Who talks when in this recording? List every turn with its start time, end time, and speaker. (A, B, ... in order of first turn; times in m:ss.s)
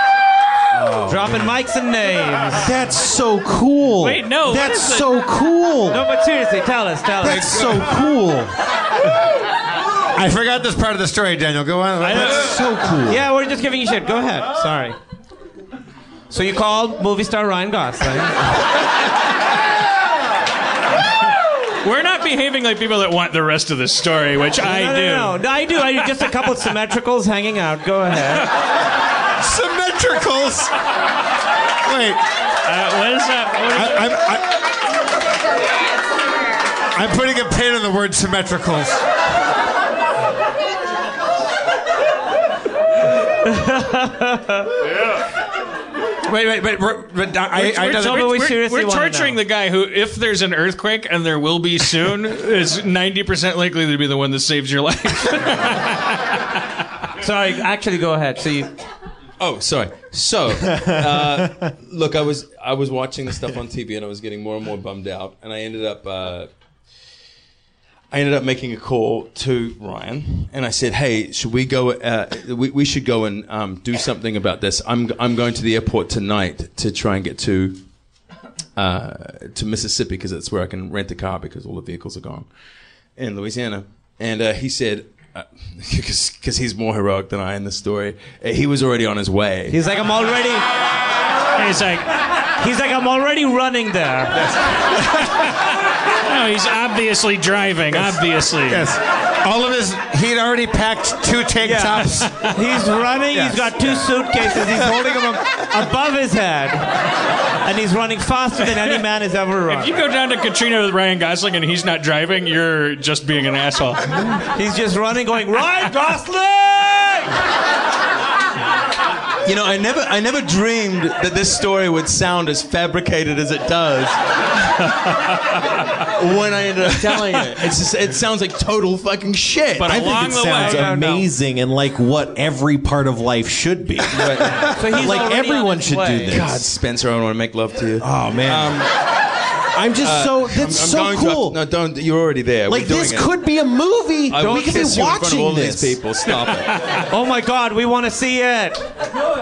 0:00.7-0:01.5 A
0:01.1-0:02.7 B
0:02.5-0:06.1 A
0:04.0-0:05.2 C
0:05.9-0:07.7 B
0:07.2-0:08.5 A
0:07.3-0:07.8 D
0:10.1-0:12.7 D
0:12.0-0:12.4 C
0:12.1-0:13.2 A
0:13.1-0:15.0 B
0:16.3-0:18.5 B
0:21.8-0:26.3 C
0:24.6-0:28.5 B
0:29.4-0:30.7 D
0:31.8-0:32.2 D
0:32.7-0:34.1 C
0:33.7-0:34.7 D
0:36.9-0:39.0 D
0:43.4-0:44.8 B
0:46.2-0:48.3 D
0:47.6-0:49.4 B
0:48.0-0:56.6 C
0:57.2-0:58.7 B
0:59.4-1:06.5 E
1:08.1-1:18.2 E
1:18.8-1:29.8 E
1:29.7-1:30.7 B
1:31.6-1:32.1 C
1:32.5-1:34.5 B
1:34.3-1:35.3 D
1:36.2-1:38.9 C
1:38.7-1:42.5 D
1:41.6-1:46.9 B
1:42.1-1:42.6 C
1:43.3-1:44.7 D
1:47.6-1:50.0 B
1:49.7-1:54.3 C
1:54.4-1:57.3 B
1:59.4-2:04.5 E
2:04.8-2:05.8 C
2:06.1-2:10.6 E
2:07.1-2:07.4 C
2:09.8-2:11.1 C
2:09.9-2:16.6 A
2:10.5-2:11.3 B
2:14.1-2:15.3 E
2:14.7-2:16.4 B
2:16.3-2:19.1 E
2:18.0-2:18.9 A
2:19.7-2:21.6 A
2:20.0-2:23.3 E
2:22.7-2:26.2 A
2:24.3-2:27.0 E
2:26.6-2:27.1 C
2:27.1-2:28.9 B